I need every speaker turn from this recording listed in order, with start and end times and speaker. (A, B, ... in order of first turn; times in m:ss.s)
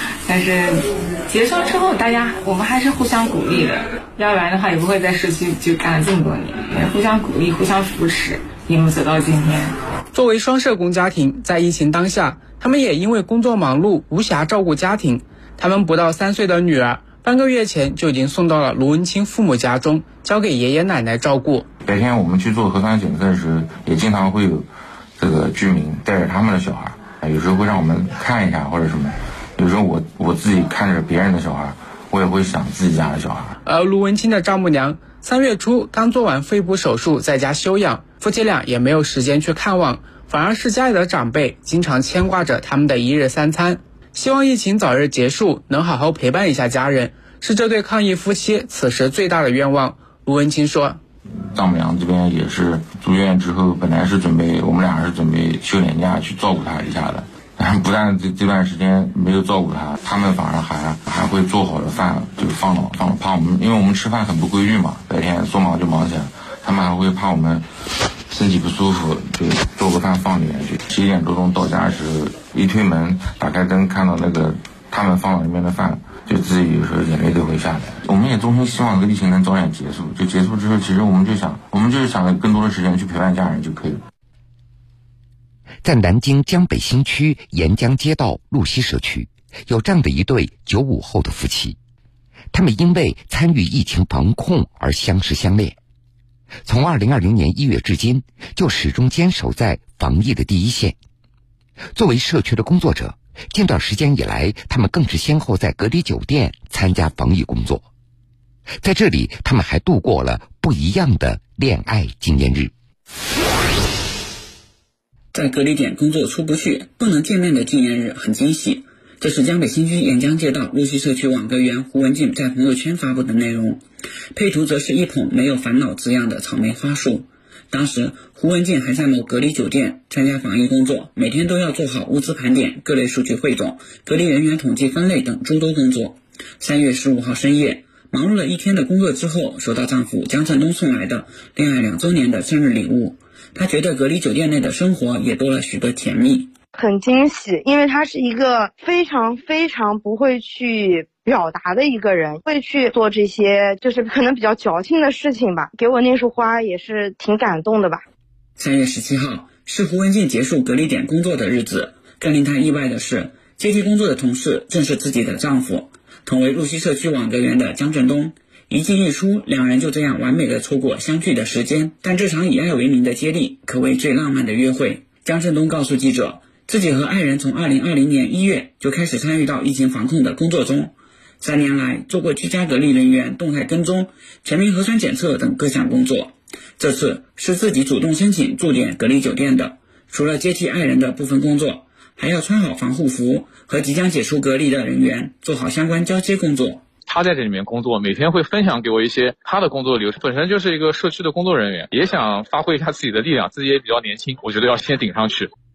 0:00.2-0:09.7 A
0:10.1-0:21.7 B
0:21.8-0:24.7 C
0:25.2-0:33.6 C
0:33.6-0:51.0 B
0:51.5-1:07.6 C
1:08.3-1:24.0 C
1:25.8-1:31.8 D
1:32.5-1:35.8 D
1:36.6-1:41.0 D
1:41.9-1:47.8 D
1:48.8-1:52.7 D
1:55.3-2:03.8 E
2:04.3-2:26.5 E
2:26.7-2:38.0 F
2:38.6-3:16.8 E
3:17.1-3:25.5 G